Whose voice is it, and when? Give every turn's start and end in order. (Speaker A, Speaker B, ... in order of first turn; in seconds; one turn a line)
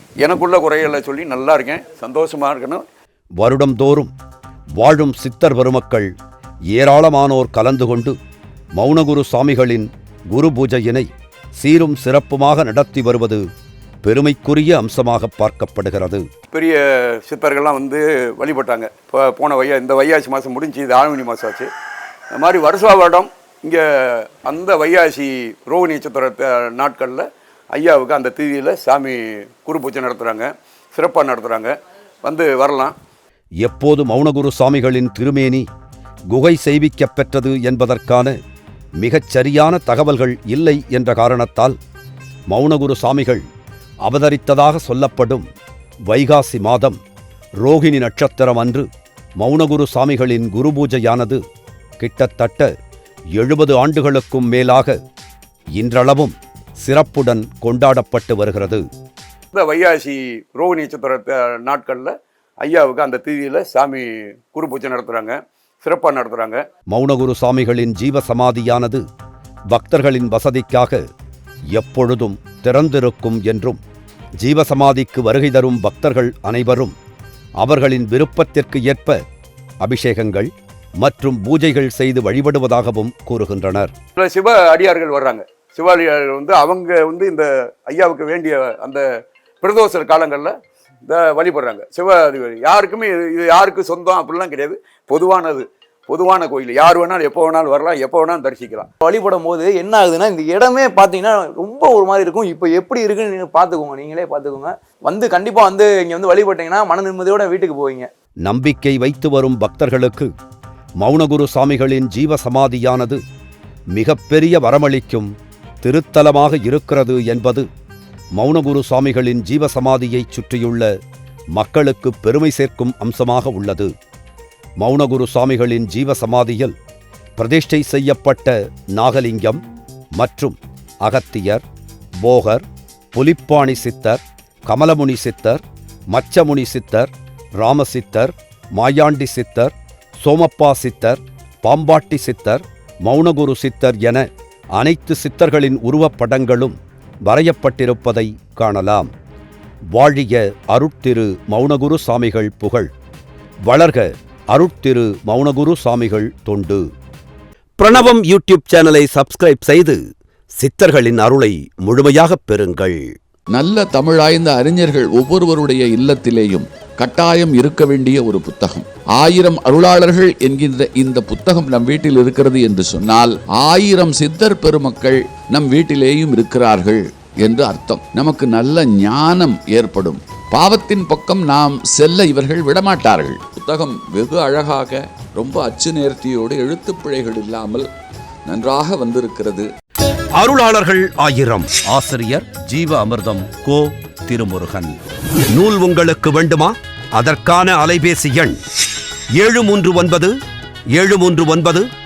Speaker A: 0.2-2.8
Speaker B: 3.4-4.1
Speaker B: 4.8-6.1
Speaker B: 6.7-8.2
Speaker B: 8.8-13.4
Speaker B: 14.0-16.2
Speaker A: 16.5-21.7
Speaker A: 22.3-31.7
Speaker A: 32.2-32.9
Speaker B: 33.6-35.6
Speaker B: 36.3-38.3
Speaker B: 39.0-41.8
Speaker B: 42.5-43.4
Speaker B: 44.0-45.4
Speaker B: 46.1-47.0
Speaker B: 47.6-48.9
Speaker B: 49.4-51.4
Speaker B: 52.0-52.7
Speaker B: 53.4-55.0
Speaker B: 55.8-58.8
Speaker A: 59.5-66.6
Speaker B: 66.9-69.0
Speaker B: 69.7-71.0
Speaker B: 71.7-73.8
Speaker B: 74.4-76.9
Speaker B: 77.6-79.2
Speaker B: 79.8-83.9
Speaker A: 84.2-89.0
Speaker A: 89.6-90.5
Speaker A: 91.1-98.9
Speaker C: 99.0-108.1
Speaker B: 108.4-110.3
Speaker B: 111.0-113.2
Speaker B: 114.0-115.3
Speaker B: 115.8-117.7
Speaker B: 118.4-120.9
Speaker B: 121.5-123.9
Speaker B: 124.8-126.7
Speaker B: 127.4-129.6
Speaker B: 130.2-131.6
Speaker B: 132.2-135.6
Speaker B: 136.1-144.2
Speaker B: 144.8-149.1
Speaker B: 149.9-152.9
Speaker B: 153.7-156.8
Speaker B: 157.8-160.0
Speaker B: 160.6-163.1
Speaker D: 163.5-187.9
Speaker D: 188.5-189.7
Speaker B: 190.4-195.0
Speaker B: 195.5-198.6
Speaker B: 199.3-200.3
Speaker B: 200.9-201.9